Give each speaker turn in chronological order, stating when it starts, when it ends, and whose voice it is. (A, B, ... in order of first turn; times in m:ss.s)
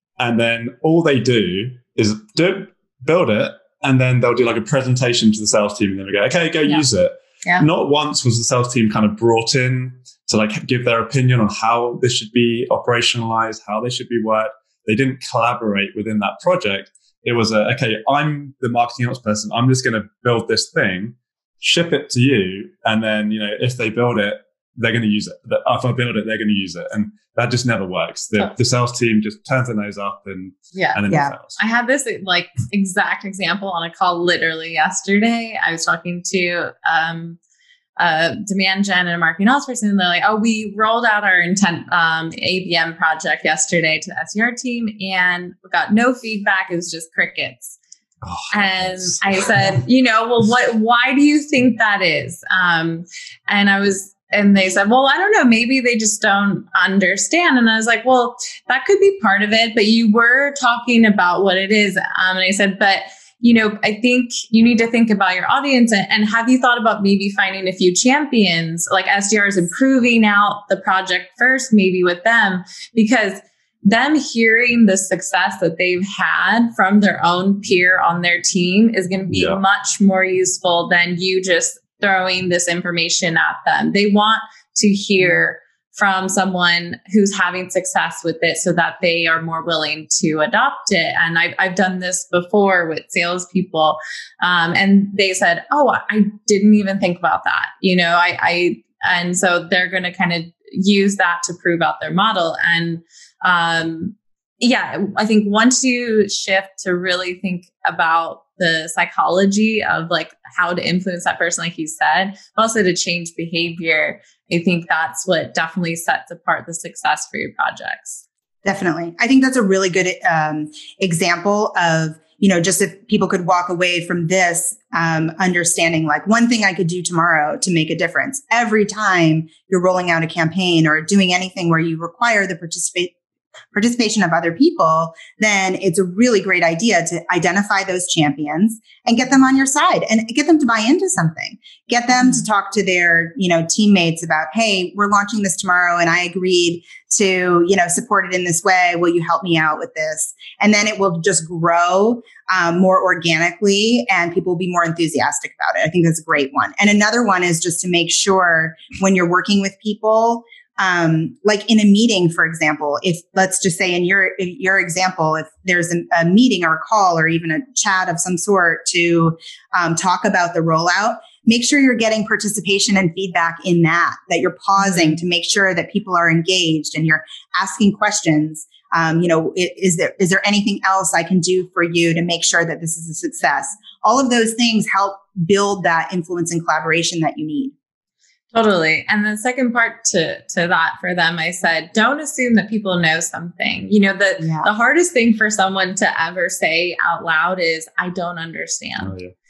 0:00.2-0:31.6 A
0:30.7-0:31.0 B
0:31.6-0:37.4 B
0:38.0-0:47.8 B
0:48.2-0:49.8 A
0:48.5-1:58.2 B
1:19.3-1:19.6 A
1:58.6-2:13.1 C
2:13.7-3:07.7 C
2:22.1-2:22.4 B
2:54.8-2:55.2 B
3:08.5-3:19.2 B
3:14.4-3:14.7 C
3:19.0-3:19.3 A